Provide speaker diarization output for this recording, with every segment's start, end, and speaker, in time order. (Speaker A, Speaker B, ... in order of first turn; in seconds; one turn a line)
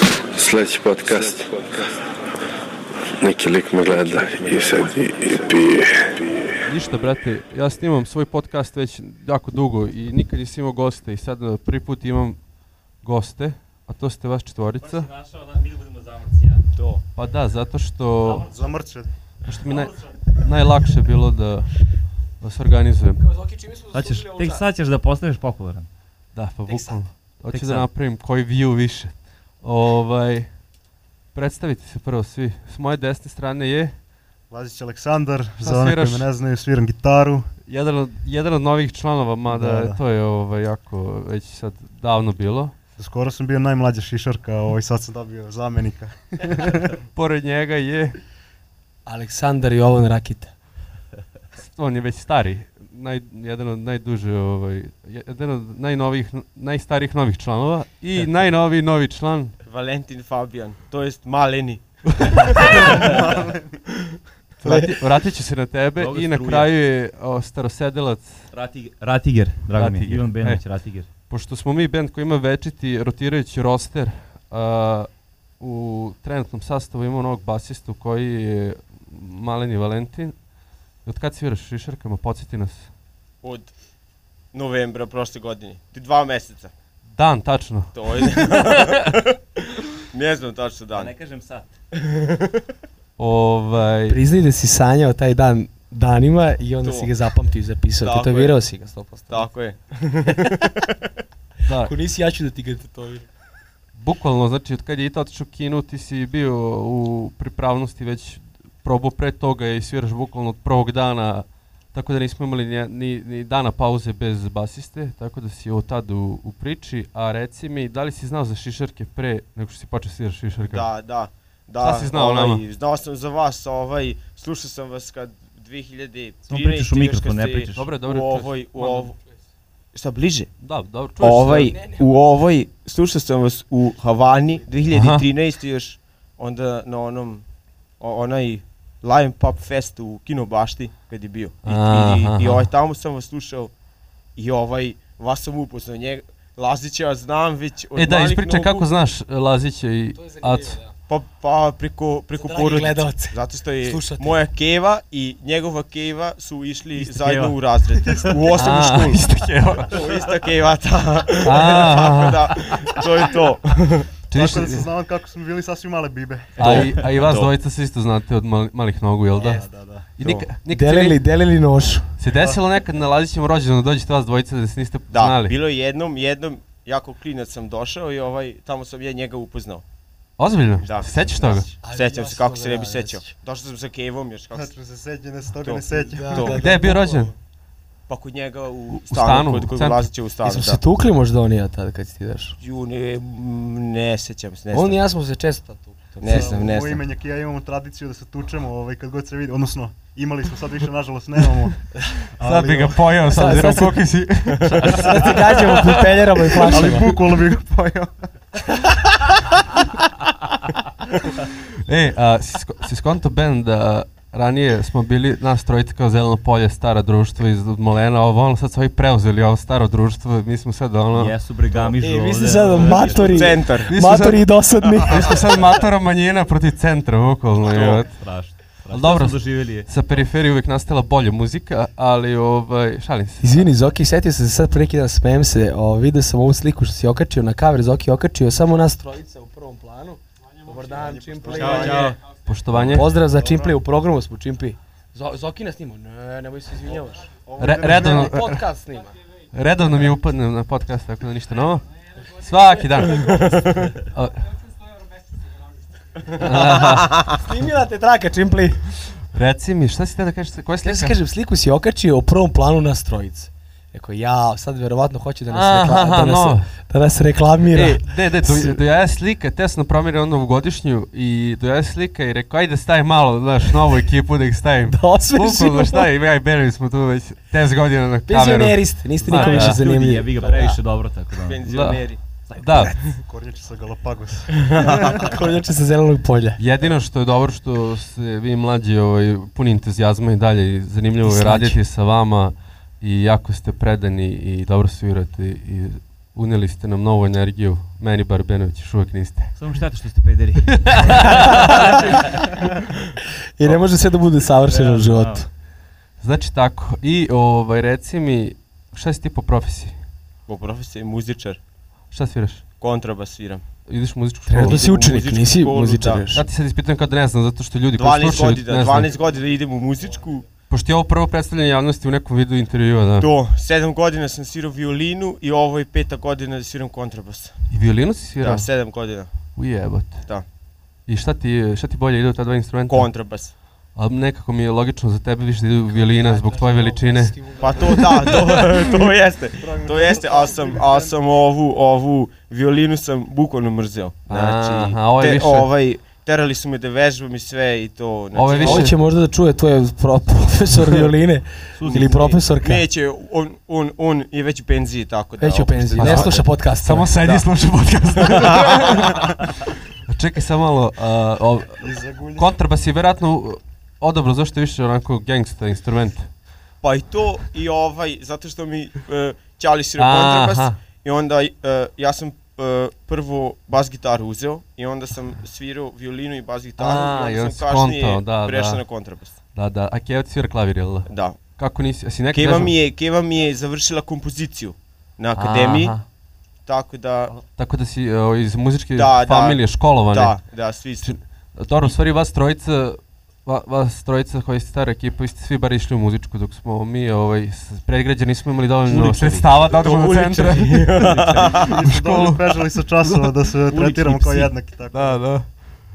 Speaker A: 0.3-1.9
Speaker A: 3.2-6.5
Speaker B: 6.6-12.4
Speaker B: 13.0-15.1
Speaker C: 14.8-16.7
Speaker D: 16.8-17.0
Speaker B: 17.1-18.5
Speaker C: 18.2-18.6
Speaker E: 18.4-19.1
Speaker B: 19.4-21.8
Speaker C: 19.7-20.2
Speaker B: 22.4-23.3
Speaker F: 23.2-24.6
Speaker C: 23.9-25.9
Speaker B: 26.3-30.5
Speaker C: 27.5-27.9
Speaker B: 31.3-33.9
Speaker E: 34.5-37.5
Speaker B: 35.6-36.3
Speaker B: 37.7-42.7
Speaker E: 39.5-40.0
Speaker E: 43.0-47.0
Speaker B: 47.1-48.2
Speaker F: 49.0-50.5
Speaker B: 51.6-59.5
Speaker D: 59.6-63.1
Speaker E: 62.6-63.8
Speaker B: 64.6-68.5
Speaker F: 64.6-64.9
Speaker C: 66.0-66.7
Speaker C: 68.5-71.1
Speaker B: 69.7-80.3
Speaker B: 81.0-82.9
Speaker D: 83.4-83.7
Speaker D: 84.5-86.7
Speaker B: 87.2-89.1
Speaker D: 87.9-91.1
Speaker C: 90.9-91.7
Speaker D: 91.9-92.7
Speaker B: 93.2-94.2
Speaker F: 94.1-99.5
Speaker D: 96.8-97.1
Speaker D: 98.0-98.6
Speaker D: 99.3-101.1
Speaker B: 101.7-101.9
Speaker F: 101.8-103.2
Speaker B: 103.9-120.9
Speaker D: 120.7-129.2
Speaker B: 121.8-122.6
Speaker C: 126.5-127.9
Speaker B: 127.8-129.1
Speaker D: 129.9-130.5
Speaker B: 130.6-131.8
Speaker D: 131.2-137.4
Speaker F: 131.6-132.0
Speaker B: 134.9-135.2
Speaker D: 138.0-143.7
Speaker B: 141.6-142.7
Speaker D: 144.3-148.9
Speaker B: 147.9-150.8
Speaker F: 150.1-150.9
Speaker D: 151.1-159.2
Speaker F: 152.4-154.4
Speaker C: 156.9-158.3
Speaker E: 158.2-158.6
Speaker B: 158.5-160.0
Speaker D: 159.8-164.1
Speaker B: 161.4-162.6
Speaker B: 164.3-164.9
Speaker E: 164.3-167.1
Speaker D: 166.6-167.5
Speaker B: 166.6-169.6
Speaker E: 169.4-170.1
Speaker B: 170.2-171.2
Speaker D: 170.2-170.4
Speaker F: 170.7-172.1
Speaker B: 172.2-175.5
Speaker E: 172.3-172.6
Speaker D: 175.1-179.8
Speaker B: 180.4-181.7
Speaker D: 180.8-184.7
Speaker F: 181.8-183.3
Speaker E: 184.5-186.6
Speaker D: 185.6-186.9
Speaker F: 186.0-187.3
Speaker B: 186.5-187.3
Speaker D: 188.1-190.8
Speaker B: 188.9-190.1
Speaker F: 190.4-192.6
Speaker D: 192.6-195.0
Speaker F: 194.7-196.5
Speaker D: 196.2-197.0
Speaker E: 196.2-203.0
Speaker B: 202.4-207.4
Speaker F: 203.3-204.1
Speaker D: 204.6-204.9
Speaker F: 204.8-207.1
Speaker E: 205.0-205.3
Speaker E: 206.7-208.8
Speaker B: 211.8-221.3
Speaker C: 221.1-223.5
Speaker F: 222.0-225.5
Speaker D: 223.1-223.9
Speaker B: 223.7-233.6
Speaker D: 227.6-228.0
Speaker C: 228.0-229.9
Speaker F: 233.4-242.1
Speaker E: 240.8-242.2
Speaker D: 241.5-242.2
Speaker B: 242.4-243.1
Speaker D: 242.7-243.0
Speaker F: 242.9-247.3
Speaker E: 243.0-243.8
Speaker E: 247.4-248.3
Speaker B: 247.6-248.6
Speaker F: 247.8-249.2
Speaker B: 249.5-254.5
Speaker D: 253.2-254.0
Speaker B: 256.3-257.3
Speaker D: 256.9-257.3
Speaker F: 257.3-258.8
Speaker B: 259.3-261.1
Speaker F: 260.8-268.8
Speaker B: 265.5-266.7
Speaker B: 267.6-279.8
Speaker F: 274.9-276.1
Speaker F: 278.3-280.8
Speaker C: 279.2-282.0
Speaker D: 281.4-282.2
Speaker B: 281.6-282.0
Speaker B: 282.5-283.0
Speaker E: 283.1-285.3
Speaker D: 284.7-285.2
Speaker F: 285.0-286.6
Speaker B: 286.6-299.6
Speaker F: 291.2-291.8
Speaker C: 299.6-302.5
Speaker B: 300.7-302.3
Speaker F: 303.6-305.5
Speaker C: 304.6-305.4
Speaker B: 306.2-309.9
Speaker D: 310.5-311.6
Speaker B: 312.1-312.6
Speaker D: 312.8-313.6
Speaker B: 313.9-314.9
Speaker F: 314.5-316.5
Speaker D: 314.6-316.2
Speaker B: 316.3-319.1
Speaker D: 317.9-320.5
Speaker B: 320.7-323.3
Speaker D: 323.2-327.5
Speaker B: 327.7-328.9
Speaker D: 328.4-329.3
Speaker B: 329.6-330.3
Speaker B: 331.1-333.1
Speaker D: 332.9-333.5
Speaker B: 333.9-338.7
Speaker F: 335.9-338.4
Speaker D: 337.6-348.9
Speaker E: 339.6-341.2
Speaker B: 344.3-345.7
Speaker B: 348.3-348.9
Speaker F: 348.6-352.8
Speaker C: 351.8-352.4
Speaker D: 351.9-356.5
Speaker F: 355.4-357.1
Speaker B: 356.0-366.3
Speaker D: 357.2-357.5
Speaker D: 358.1-359.3
Speaker E: 361.8-362.5
Speaker D: 366.8-379.4
Speaker B: 370.0-370.8
Speaker B: 376.8-378.8
Speaker B: 379.5-382.7
Speaker D: 381.1-381.4
Speaker D: 382.3-385.9
Speaker B: 385.4-386.0
Speaker D: 386.6-387.4
Speaker B: 387.4-390.4
Speaker D: 388.9-391.1
Speaker B: 391.0-403.4
Speaker F: 398.9-399.3
Speaker D: 399.3-401.7
Speaker C: 401.0-401.6
Speaker E: 401.5-405.2
Speaker C: 403.7-404.5
Speaker B: 404.9-405.5